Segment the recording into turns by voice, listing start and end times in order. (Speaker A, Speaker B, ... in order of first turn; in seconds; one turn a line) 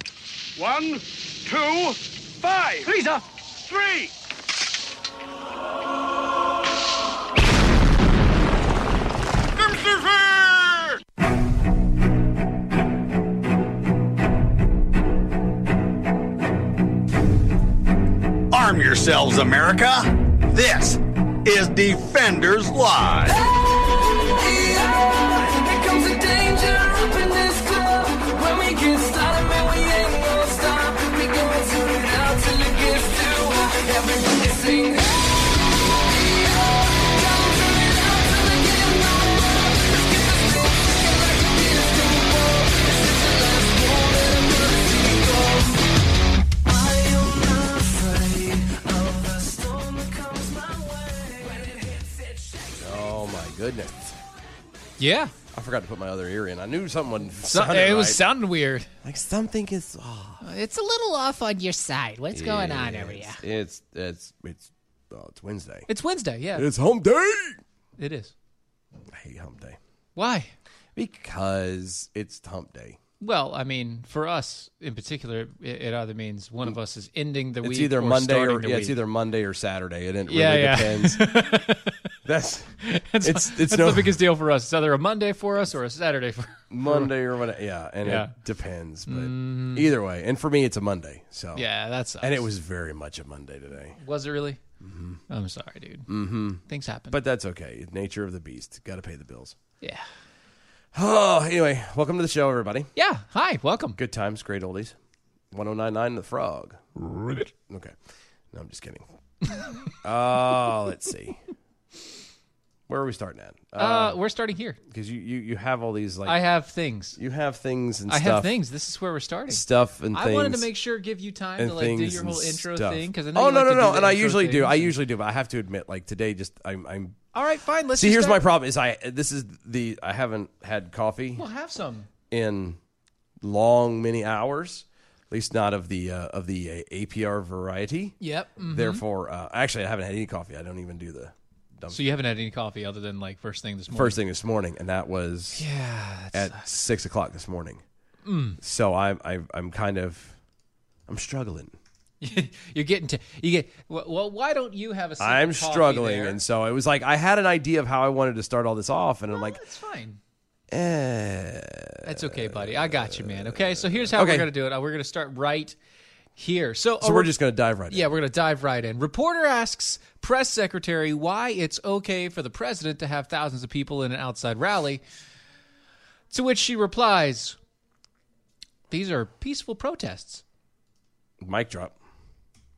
Speaker A: 0.6-4.1
Speaker A: 9.7-10.3
Speaker B: 18.5-23.4
Speaker C: 24.4-35.0
Speaker D: 29.8-31.1
Speaker D: 31.6-33.2
Speaker C: 37.0-37.7
Speaker D: 37.8-38.4
Speaker C: 38.2-38.9
Speaker C: 39.9-45.7
Speaker C: 46.7-52.0
Speaker E: 52.8-54.2
Speaker D: 55.0-55.3
Speaker E: 55.5-58.2
Speaker D: 57.5-58.9
Speaker E: 59.0-60.4
Speaker D: 60.4-63.4
Speaker E: 62.3-65.9
Speaker D: 65.9-66.7
Speaker E: 66.5-67.6
Speaker D: 68.0-68.3
Speaker E: 69.1-69.8
Speaker D: 70.2-70.5
Speaker E: 71.0-73.0
Speaker D: 73.2-79.0
Speaker E: 77.6-81.3
Speaker D: 80.3-82.0
Speaker E: 82.2-84.2
Speaker D: 82.8-87.1
Speaker E: 86.7-91.6
Speaker D: 88.0-88.3
Speaker D: 89.1-89.9
Speaker D: 91.5-92.5
Speaker E: 92.2-94.0
Speaker D: 94.0-94.6
Speaker E: 94.8-95.2
Speaker D: 95.3-96.1
Speaker E: 96.1-99.5
Speaker D: 96.6-97.2
Speaker E: 100.9-102.9
Speaker D: 103.0-104.0
Speaker E: 104.0-105.0
Speaker E: 105.5-107.9
Speaker E: 108.5-109.0
Speaker E: 110.0-111.4
Speaker E: 112.9-114.2
Speaker D: 113.8-114.8
Speaker E: 114.9-116.4
Speaker D: 116.2-117.2
Speaker E: 117.2-118.5
Speaker D: 118.1-124.9
Speaker E: 119.5-120.7
Speaker E: 121.6-127.2
Speaker D: 127.3-128.4
Speaker E: 127.9-131.4
Speaker D: 131.3-132.1
Speaker E: 132.3-132.8
Speaker E: 133.4-142.0
Speaker D: 138.2-139.0
Speaker D: 141.9-144.2
Speaker E: 143.9-145.6
Speaker D: 145.6-146.7
Speaker E: 146.3-147.8
Speaker D: 148.2-148.6
Speaker E: 148.6-150.4
Speaker E: 151.1-151.7
Speaker D: 152.2-156.4
Speaker E: 155.2-159.6
Speaker D: 159.3-160.2
Speaker E: 160.7-164.5
Speaker D: 162.0-165.8
Speaker D: 166.4-167.3
Speaker E: 167.0-168.1
Speaker D: 167.9-175.0
Speaker D: 176.3-177.6
Speaker D: 178.9-180.4
Speaker E: 181.4-181.9